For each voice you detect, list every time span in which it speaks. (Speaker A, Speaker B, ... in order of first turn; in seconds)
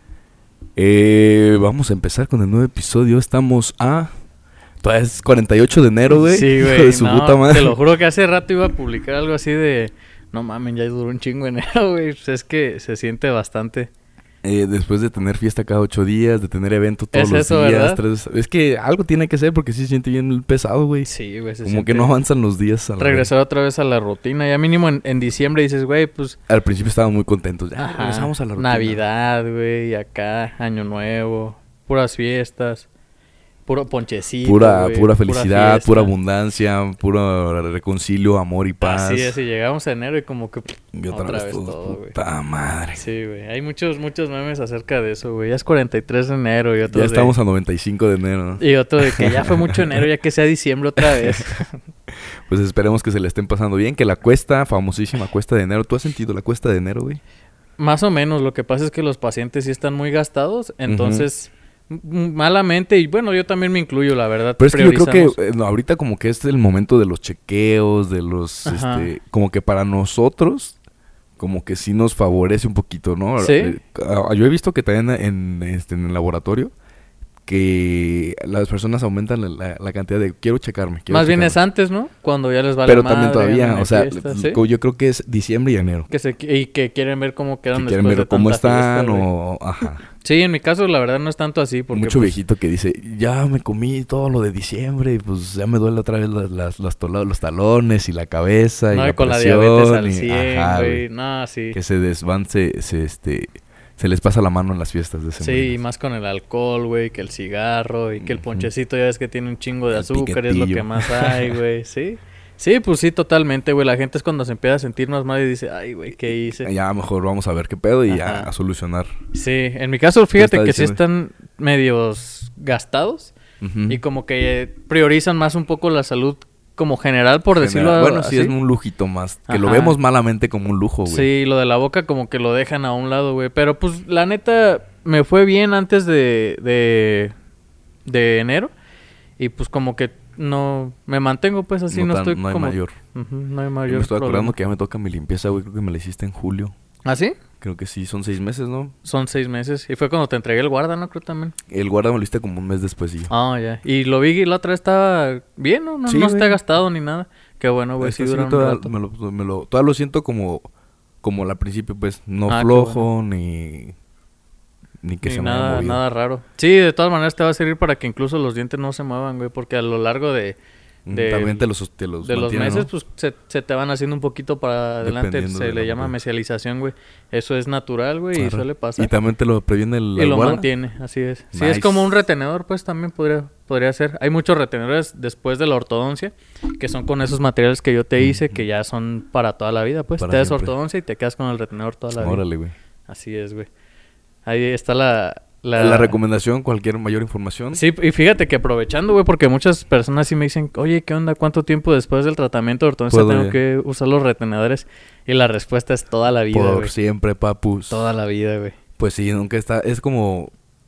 Speaker A: 0.8-4.1, 4.8-7.8, 14.4-21.1, 21.6-23.3, 26.5-29.0, 34.4-39.4, 40.9-43.0, 46.9-50.0, 51.0-57.2, 60.9-61.3, 64.6-70.8, 71.4-76.7, 77.5-81.6, 82.8-86.1, 87.7-90.1, 91.9-101.0, 101.7-105.8, 108.2-108.7, 109.9-111.6, 116.5-119.1, 120.4-121.0, 123.6-124.0, 127.5-131.3, 141.9-142.9, 143.9-146.8, 147.6-148.9, 151.7-153.3, 156.1-156.6, 158.0-160.7, 161.2-163.9, 165.0-166.0, 171.1-172.9, 175.0-176.1, 178.3-180.7, 181.5-182.1, 188.2-188.6, 190.2-190.7, 192.1-192.7, 195.8-197.8, 203.1-203.6, 206.5-208.0, 209.0-210.5
Speaker B: 6.1-13.9, 17.1-18.0, 21.1-22.1, 23.0-26.4, 27.8-32.9, 33.7-36.1, 38.8-42.1, 43.0-47.4, 48.6-51.8, 57.8-65.4, 68.7-69.1, 73.4-73.8, 81.1-84.6, 86.1-89.3, 90.2-92.4, 98.9-101.8, 105.4-116.7, 118.1-118.5, 119.3-123.3, 123.9-128.5, 129.5-130.0, 131.1-137.3, 138.1-138.7, 139.4-144.6, 147.1-147.4, 149.0-151.6, 153.3-158.9, 162.5-163.1, 165.2-170.6, 171.1-171.7, 172.2-179.1, 180.2-192.4, 193.1-193.7, 194.4-196.2, 197.7-206.9, 207.9-208.8